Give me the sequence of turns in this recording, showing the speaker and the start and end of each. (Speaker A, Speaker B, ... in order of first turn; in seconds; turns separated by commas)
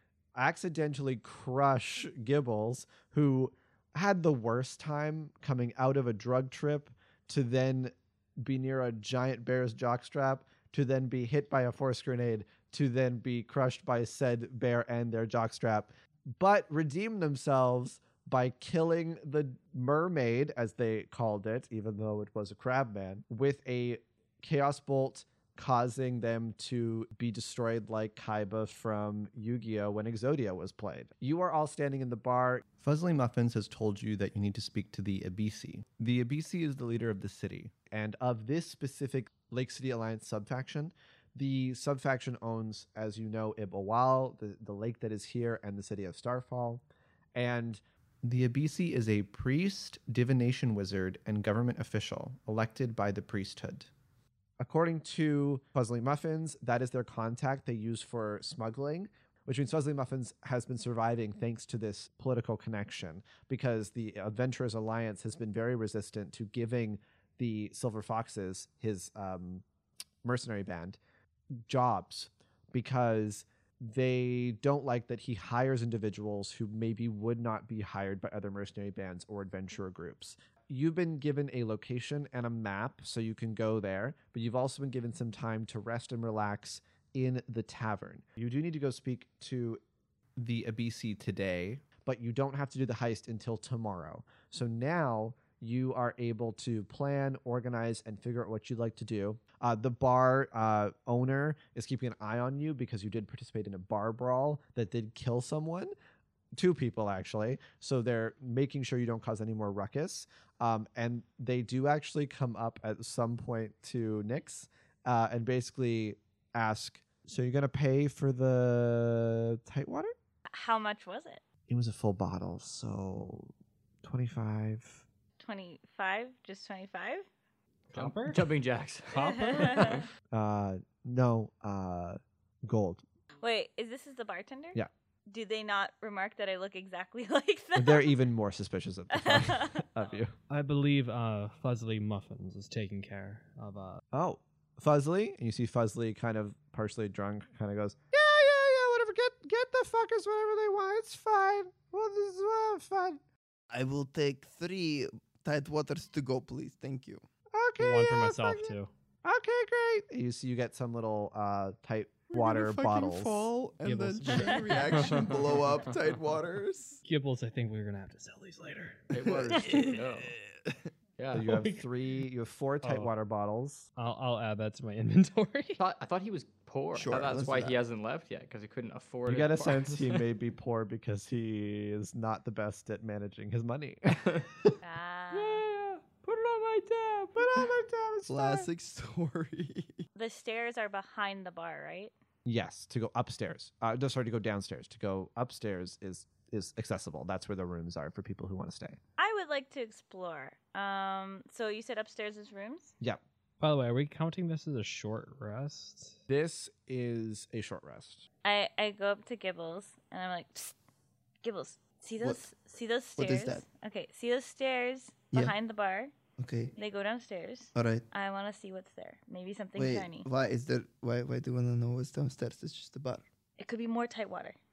Speaker A: 0.3-46.8, Speaker A: 47.3-53.9, Speaker A: 54.6-69.6, Speaker A: 70.2-71.0, Speaker A: 71.7-89.8, Speaker A: 90.4-105.9, Speaker A: 106.5-120.1, Speaker B: 120.5-121.4, Speaker A: 121.7-123.5, Speaker A: 124.0-125.0, Speaker B: 125.4-127.2, Speaker C: 127.9-128.4, Speaker D: 127.9-130.0, Speaker C: 129.2-130.0, Speaker B: 129.2-130.0, Speaker A: 130.3-133.0, Speaker B: 133.4-134.8, Speaker B: 135.3-138.1, Speaker A: 137.8-140.3, Speaker B: 139.1-139.8, Speaker C: 140.5-144.0, Speaker A: 144.1-153.2, Speaker E: 153.7-157.2, Speaker A: 157.5-158.7, Speaker C: 157.8-158.9, Speaker A: 159.2-163.5, Speaker E: 162.3-167.0, Speaker C: 163.8-165.3, Speaker C: 167.0-169.9, Speaker D: 169.1-170.3, Speaker E: 169.3-170.0, Speaker D: 171.2-171.5, Speaker A: 171.3-173.9, Speaker C: 171.4-171.8, Speaker C: 172.8-173.1, Speaker C: 173.9-175.8, Speaker D: 175.8-180.3, Speaker E: 176.9-177.8, Speaker A: 179.2-184.7, Speaker B: 184.8-185.6, Speaker D: 185.3-187.7, Speaker A: 187.3-188.7, Speaker E: 188.3-190.1, Speaker B: 190.2-192.1, Speaker A: 192.4-199.0, Speaker B: 199.2-202.9, Speaker C: 203.6-206.2, Speaker A: 206.3-208.2, Speaker B: 208.4-210.7, Speaker B: 211.4-216.1, Speaker E: 213.2-213.6, Speaker E: 216.4-216.7, Speaker B: 216.8-220.2, Speaker E: 217.7-218.1, Speaker E: 219.8-223.2, Speaker B: 223.6-224.6